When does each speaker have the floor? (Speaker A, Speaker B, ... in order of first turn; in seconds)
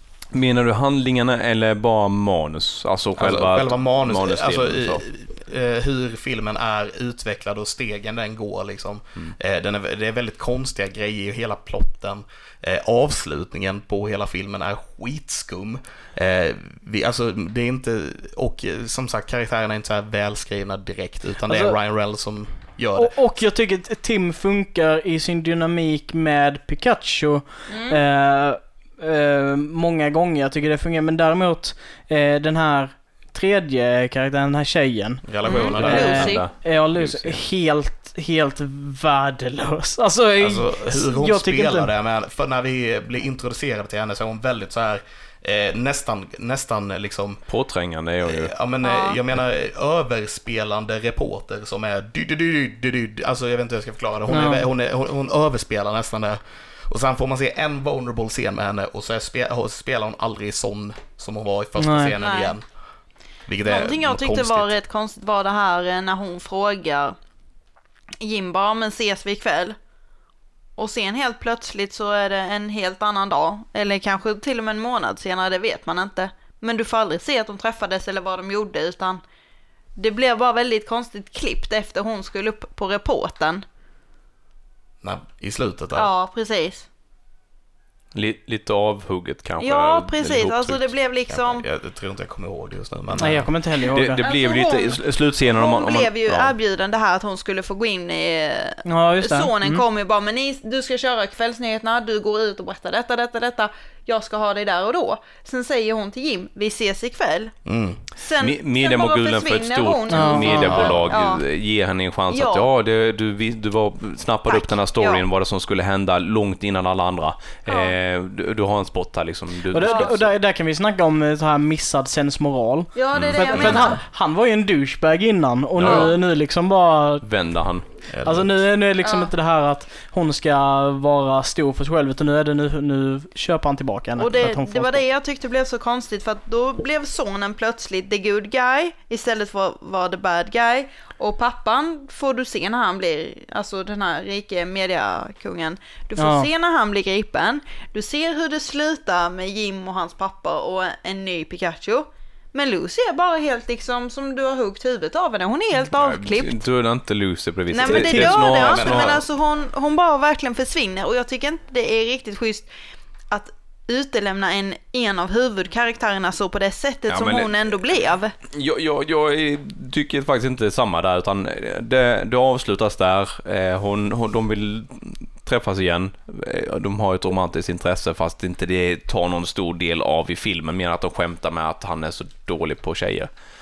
Speaker A: 0.3-5.0, 35.8-37.4, 47.5-48.5, 88.1-90.9, 93.2-96.5, 108.4-120.3, 123.1-123.9, 125.8-126.2, 127.2-127.8, 155.9-159.2, 167.1-167.6, 168.5-183.3
Speaker B: 3.2-23.2, 35.2-36.3, 40.4-47.4, 48.2-62.6, 63.5-64.7, 85.0-86.1, 91.3-93.5, 107.7-108.0, 110.7-111.2, 123.6-123.8, 128.1-128.6, 157.8-159.2
Speaker C: 21.5-21.8, 22.9-41.9, 54.3-54.6, 61.8-62.1, 93.2-94.2, 98.8-99.8, 110.1-110.9, 119.7-127.2, 128.2-135.0, 146.2-146.5
Speaker D: 27.7-28.0, 35.4-36.5, 48.8-49.2, 62.2-62.6, 63.6-67.2, 68.2-69.8, 70.8-79.2, 80.0-83.6, 85.9-86.9, 89.6-91.7, 94.2-107.5, 108.2-111.4, 112.3-112.7, 114.5-115.2, 117.7-117.9, 119.8-120.1, 122.9-124.0, 129.0-129.3, 134.2-156.6, 157.7-162.7, 163.3-168.3